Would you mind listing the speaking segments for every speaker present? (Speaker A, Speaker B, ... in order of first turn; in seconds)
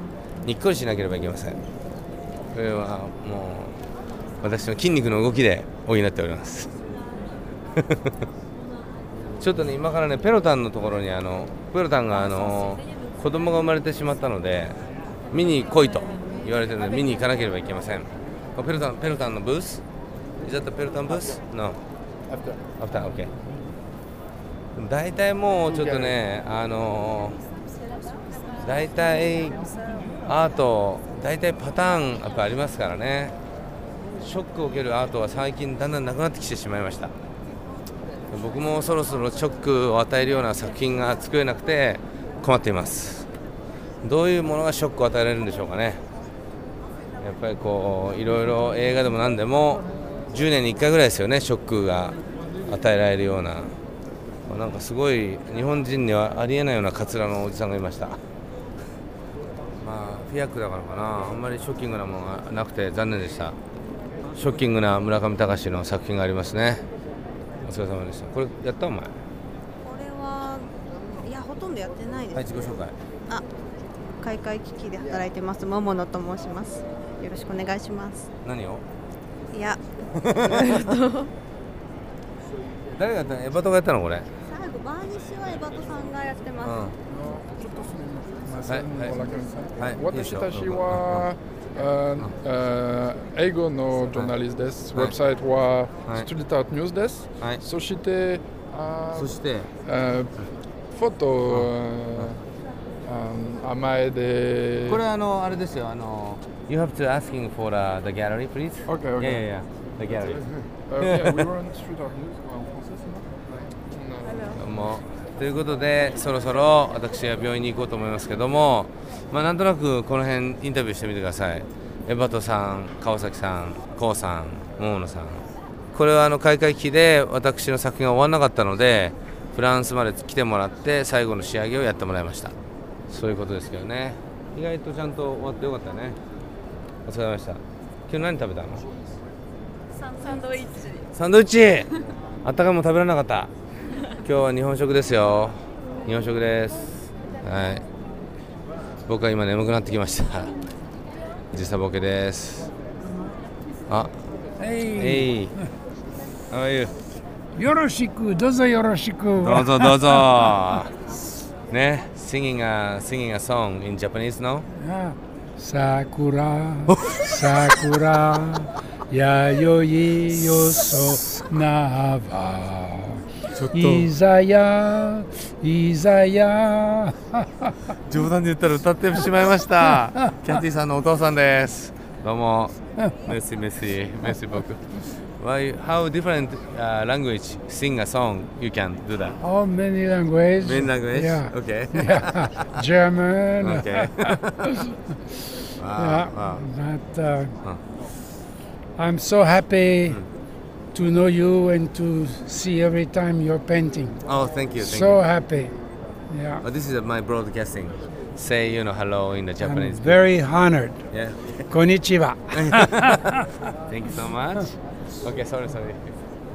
Speaker A: 0.5-1.6, 2.5-3.8, 4.4-6.7, 7.8-8.2, 9.4-14.8, 15.3-19.8, 20.4-21.8, 22.8-23.3, 24.8-27.4, 28.6-29.6, 30.2-33.4, 34.2-37.1, 38.3-43.3, 44.0-46.0, 47.2-53.8, 54.5-58.2, 59.8-63.6, 64.3-66.9, 67.6-69.2, 72.3-73.0, 78.4-78.8, 80.2-80.8, 83.0-84.3, 86.6-87.0, 88.7-91.2, 94.1-94.3, 99.1-99.7, 104.9-110.4, 111.0-111.4, 114.5-132.6, 133.1-136.2, 137.1-138.9, 141.1-141.9, 142.4-143.5, 144.1-147.9, 149.1-150.6, 151.5-152.7, 155.0-155.6, 156.5-157.0, 159.3-160.9, 161.7-164.7, 166.9-167.7, 173.5-174.1, 178.0-189.4, 190.6-192.7, 193.6-194.8, 195.7-196.7, 204.2-205.2, 206.6-210.2, 211.1-211.7, 212.5-216.0
Speaker B: 69.8-72.4, 74.2-78.3, 79.5-79.8, 80.5-81.3, 84.5-86.7, 140.3-140.8
Speaker C: 87.1-100.3, 100.9-102.4, 103.0-105.0, 108.9-109.5, 110.9-113.3, 113.9-114.6
Speaker D: 154.6-155.7, 157.6-160.6, 164.8-177.8, 189.4-197.5, 199.0-200.2, 200.9-204.2, 204.8-205.8, 206.3-206.6, 209.6-211.1, 211.7-213.5